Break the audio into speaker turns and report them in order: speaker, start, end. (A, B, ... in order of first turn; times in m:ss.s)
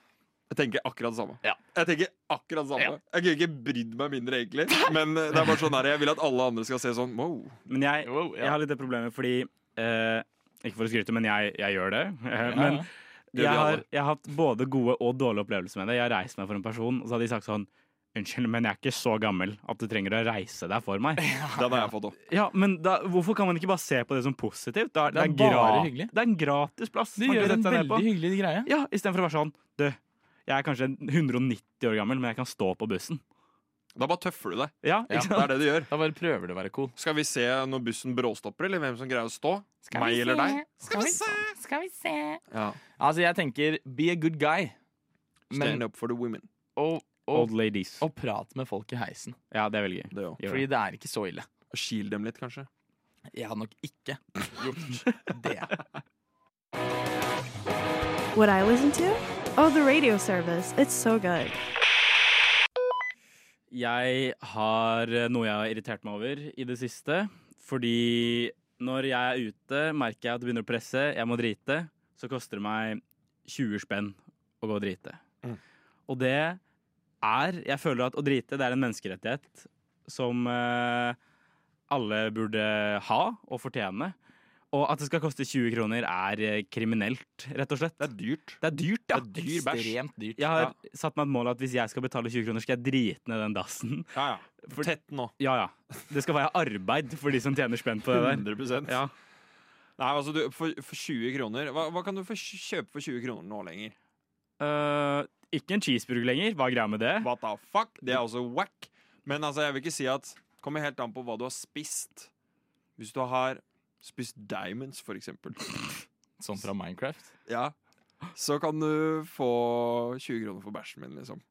0:00.5-0:07.6 A
0:07.7-0:21.2 B
0:08.0-0:08.6 C
0:12.5-0:12.9 C
0:13.3-0:13.8 A
0:21.2-0:21.9 C
0:21.5-0:22.2 A
0:22.3-0:28.1 B
0:25.1-0:26.1 C
0:27.2-0:28.7 C
0:28.6-0:33.2 B
0:34.0-0:35.9 A
0:34.8-0:35.6 B
0:35.1-0:36.9 C
0:37.0-0:41.4 A
0:39.8-0:42.4 C
0:42.5-0:42.8 A
0:43.0-0:44.8 C
0:45.5-0:45.8 C
0:45.5-0:46.5 A
0:46.8-0:49.4 C
0:47.3-0:48.0 B
0:49.5-0:50.7 B
0:50.1-0:50.4 A
0:50.4-0:51.5 C
0:51.7-0:52.7 A
0:53.3-0:55.7 C
0:58.3-1:01.6 D
1:03.7-1:15.2 B
1:16.1-1:16.6 B
1:17.2-1:21.2 B
1:21.9-1:24.1 B
1:24.7-1:28.1 B
1:28.0-1:29.9 A
1:28.6-1:29.5 B
1:29.4-1:30.6 C
1:30.4-1:34.1 B
1:34.1-1:35.3 A
1:35.4-1:39.1 B
1:38.1-1:39.0 A
1:40.0-1:43.9 A
1:44.6-1:47.3 B
1:47.2-1:52.3 A
1:53.0-1:55.8 A
1:56.4-1:57.3 C
1:57.5-1:57.7 A
1:58.3-2:01.4 A